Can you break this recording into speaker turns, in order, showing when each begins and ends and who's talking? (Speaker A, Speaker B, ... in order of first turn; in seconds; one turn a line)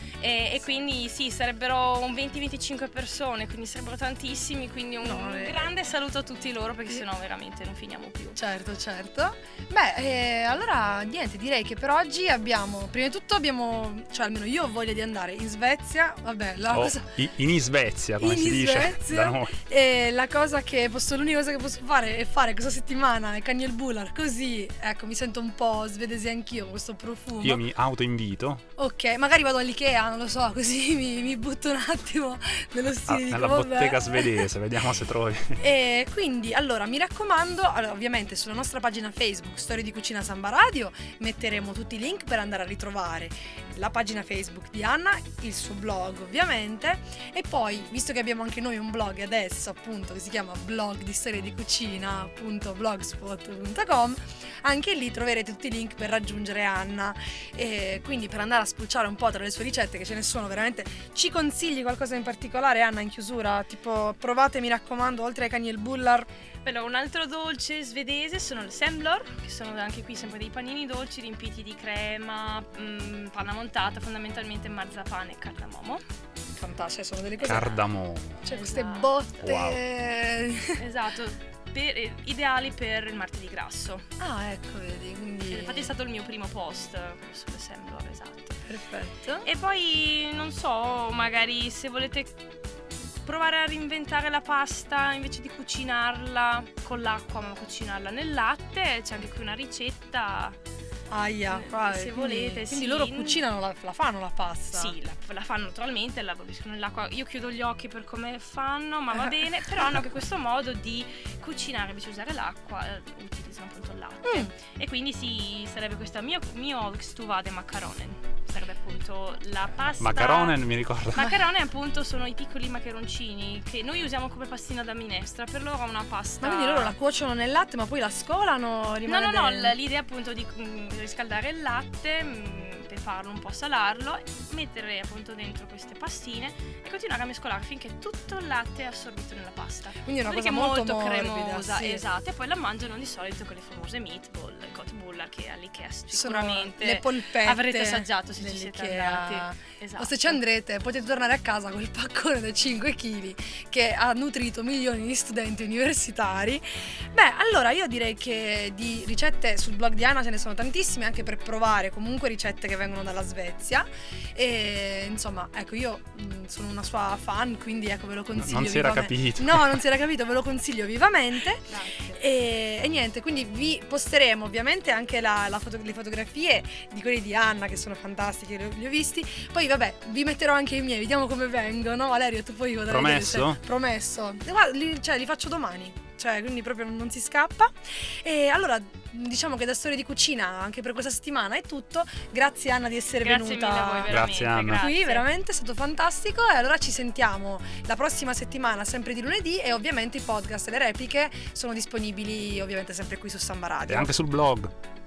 Speaker A: 0.2-8.4
Speaker B: 5.0-5.7
Speaker B: 8.3-17.1
Speaker C: 16.7-19.5
Speaker B: 18.2-27.6
Speaker C: 27.4-28.6
Speaker B: 28.8-34.5
Speaker C: 33.1-35.6
Speaker B: 35.6-66.3
Speaker A: 66.6-76.0
Speaker B: 76.6-77.8
Speaker C: 77.4-78.4
Speaker B: 78.4-80.8
Speaker A: 78.5-79.1
Speaker C: 79.4-79.8
Speaker A: 80.8-84.0
Speaker B: 84.2-85.9
Speaker A: 85.5-88.6
Speaker B: 88.7-89.5
Speaker A: 89.4-92.3
Speaker A: 93.2-100.6
Speaker B: 101.1-104.9
Speaker A: 101.5-103.4
Speaker A: 104.7-120.6
Speaker B: 114.2-114.5
Speaker C: 120.0-121.3
Speaker A: 121.1-127.0
Speaker B: 126.4-129.8
Speaker A: 129.1-150.4
Speaker B: 140.0-142.0
Speaker B: 146.1-194.2
Speaker C: 168.3-169.8
Speaker A: 171.7-172.2
Speaker C: 182.9-183.6
Speaker A: 193.2-195.2
Speaker C: 194.1-194.8
Speaker B: 194.8-204.1
Speaker C: 203.9-204.7